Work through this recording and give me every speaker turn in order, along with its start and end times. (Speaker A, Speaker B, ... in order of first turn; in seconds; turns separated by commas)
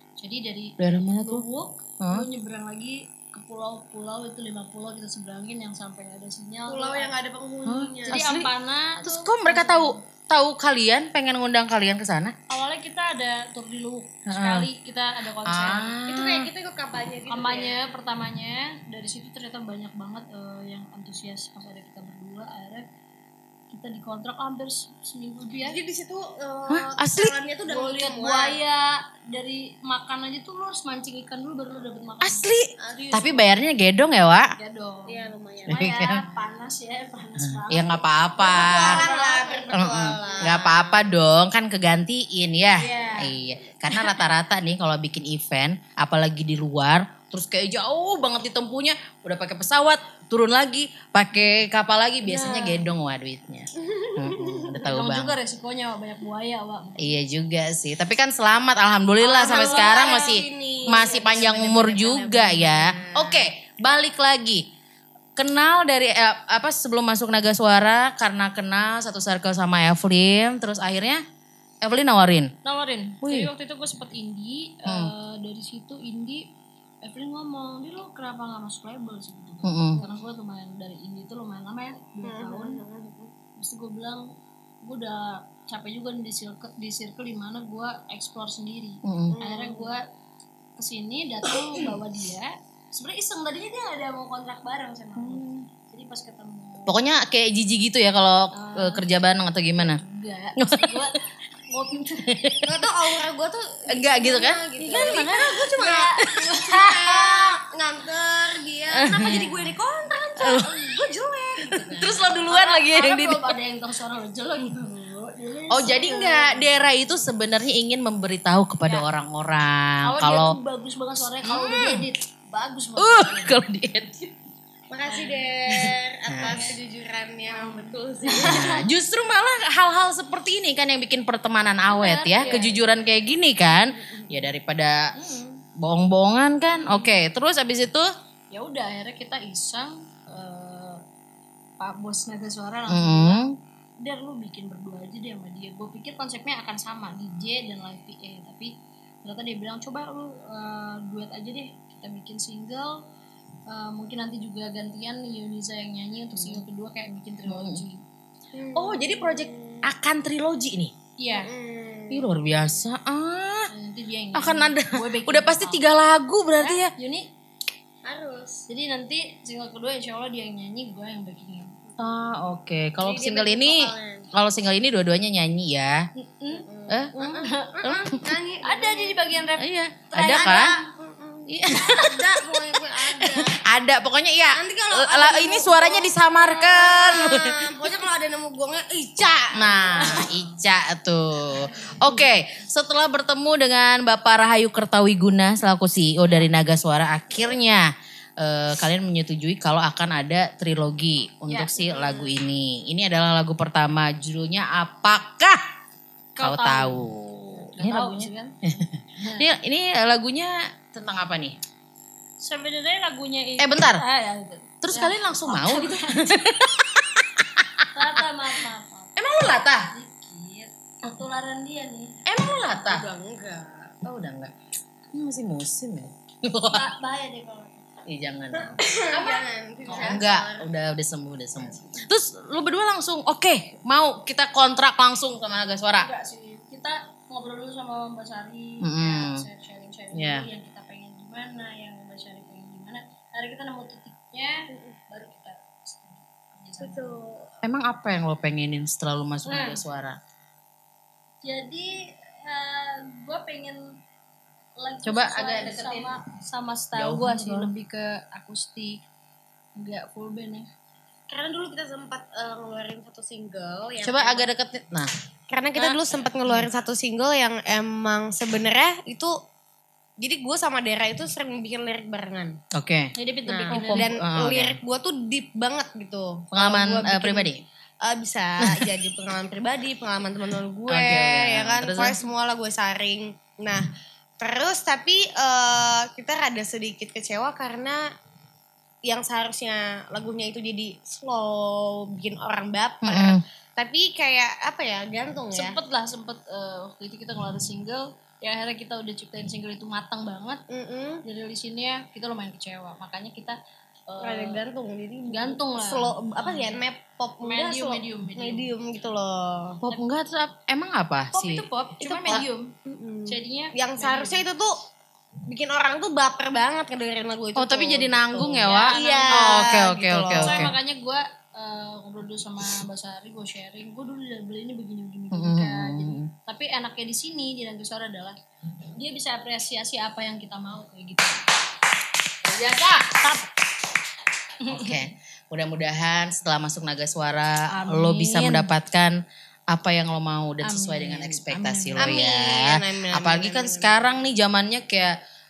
Speaker A: 0.2-7.1, Speaker B: 0.8-1.4, Speaker B: 2.0-2.3, Speaker C: 6.7-8.2, Speaker B: 7.7-8.5, Speaker A: 8.1-10.0, Speaker B: 9.0-12.3, Speaker A: 12.5-16.0, Speaker B: 14.3-14.7, Speaker B: 15.4-16.5, Speaker C: 16.1-17.8, Speaker A: 17.3-22.9, Speaker A: 23.7-25.8, Speaker C: 25.6-28.6, Speaker B: 26.7-27.4, Speaker A: 27.6-33.5, Speaker B: 32.2-34.5, Speaker A: 34.6-40.6, Speaker C: 35.1-35.9, Speaker B: 35.7-36.2, Speaker B: 37.4-39.0, Speaker C: 38.4-41.0, Speaker B: 39.7-55.4, Speaker A: 42.8-43.3, Speaker A: 43.9-44.2, Speaker A: 52.2-52.8, Speaker C: 53.8-54.8, Speaker A: 54.8-57.1, Speaker B: 57.0-64.6, Speaker C: 59.2-63.5, Speaker B: 65.4-71.2, Speaker B: 71.8-72.5, Speaker A: 72.6-76.5, Speaker B: 73.2-73.5, Speaker B: 74.9-75.1, Speaker A: 77.0-82.8, Speaker B: 79.6-80.0, Speaker C: 82.2-83.3, Speaker A: 83.6-84.2, Speaker A: 84.8-90.0, Speaker B: 89.0-89.4, Speaker C: 89.3-89.9, Speaker A: 90.8-97.0, Speaker B: 91.5-91.8, Speaker B: 95.2-95.7, Speaker B: 96.9-100.0, Speaker A: 98.5-99.0, Speaker A: 99.8-102.3, Speaker B: 100.6-101.1, Speaker B: 101.9-102.9, Speaker C: 102.6-110.6, Speaker B: 103.9-105.2, Speaker A: 104.8-107.5, Speaker B: 109.0-109.5, Speaker A: 109.2-116.7, Speaker B: 110.4-110.7, Speaker C: 111.6-112.2, Speaker B: 111.8-113.5, Speaker B: 115.7-120.6, Speaker A: 120.0-123.6, Speaker B: 121.4-122.1, Speaker B: 123.0-124.3, Speaker C: 124.9-128.7, Speaker A: 125.0-125.4, Speaker B: 125.7-126.7, Speaker A: 126.4-126.7, Speaker A: 127.5-128.8, Speaker B: 128.4-135.1, Speaker A: 131.9-132.8, Speaker C: 133.9-134.3, Speaker A: 135.1-135.6, Speaker B: 135.8-138.1, Speaker A: 136.8-137.2, Speaker A: 138.5-141.0, Speaker A: 141.8-143.5, Speaker B: 142.9-143.6, Speaker A: 144.0-148.7, Speaker A: 149.2-153.0, Speaker A: 153.7-158.0, Speaker B: 156.3-156.6, Speaker B: 157.5-157.8, Speaker C: 158.5-159.8, Speaker B: 158.7-160.9, Speaker A: 161.2-161.5, Speaker C: 161.3-162.3, Speaker B: 162.1-163.7, Speaker A: 163.7-165.8, Speaker B: 164.3-166.9, Speaker A: 166.6-167.3, Speaker C: 168.0-168.6, Speaker A: 168.7-171.7, Speaker B: 172.0-176.1, Speaker C: 173.0-174.3, Speaker A: 176.2-176.6, Speaker C: 176.5-179.2, Speaker B: 176.9-177.2, Speaker A: 177.2-177.8, Speaker B: 177.8-178.2, Speaker A: 178.6-180.8, Speaker B: 179.6-180.7, Speaker C: 180.2-183.6, Speaker B: 181.5-187.7, Speaker C: 184.5-190.4, Speaker B: 189.5-205.6, Speaker A: 201.5-202.0, Speaker C: 201.9-202.3, Speaker A: 206.3-207.0, Speaker B: 206.4-211.6, Speaker A: 207.7-208.6, Speaker A: 209.2-209.5, Speaker A: 212.4-216.4, Speaker B: 213.6-214.0, Speaker B: 214.8-218.2, Speaker A: 217.9-219.2, Speaker B: 219.2-219.9, Speaker A: 219.9-222.2, Speaker B: 222.2-223.0, Speaker C: 222.7-223.9, Speaker B: 224.0-224.5, Speaker B: 225.1-226.8, Speaker A: 226.7-227.8, Speaker B: 228.1-236.1, Speaker C: 228.6-230.7, Speaker A: 229.9-230.2, Speaker A: 235.9-247.2, Speaker B: 238.8-239.4, Speaker B: 240.1-240.5, Speaker C: 246.8-247.4, Speaker B: 247.6-250.2, Speaker A: 249.4-249.8, Speaker A: 251.4-253.9, Speaker A: 254.8-259.0, Speaker B: 255.0-255.9, Speaker B: 256.9-257.7, Speaker A: 259.8-260.7, Speaker C: 261.3-264.5, Speaker B: 264.0-265.1, Speaker C: 265.5-269.4, Speaker B: 265.8-266.7, Speaker C: 270.2-272.6, Speaker B: 272.7-273.1, Speaker A: 273.1-274.1, Speaker C: 273.5-277.5, Speaker B: 273.7-274.8, Speaker B: 276.5-277.6, Speaker C: 278.0-283.9, Speaker B: 278.6-278.9, Speaker B: 280.9-282.2, Speaker C: 284.4-288.0, Speaker C: 289.0-295.8, Speaker B: 293.0-293.4, Speaker A: 295.5-300.6, Speaker C: 300.7-301.2, Speaker A: 301.2-303.6, Speaker A: 304.1-304.6, Speaker C: 304.2-309.8, Speaker A: 305.3-306.8, Speaker A: 307.4-308.7, Speaker B: 309.8-311.6, Speaker A: 311.3-312.7, Speaker C: 312.0-314.8, Speaker A: 313.3-314.4, Speaker C: 315.5-320.6, Speaker B: 317.6-320.7, Speaker A: 318.4-319.7, Speaker A: 320.3-328.4, Speaker B: 325.3-326.3, Speaker A: 328.9-331.4, Speaker B: 332.4-333.4, Speaker A: 334.6-335.0, Speaker B: 334.7-339.1, Speaker A: 337.7-338.7, Speaker B: 339.7-345.2, Speaker A: 340.6-342.2, Speaker C: 342.0-344.2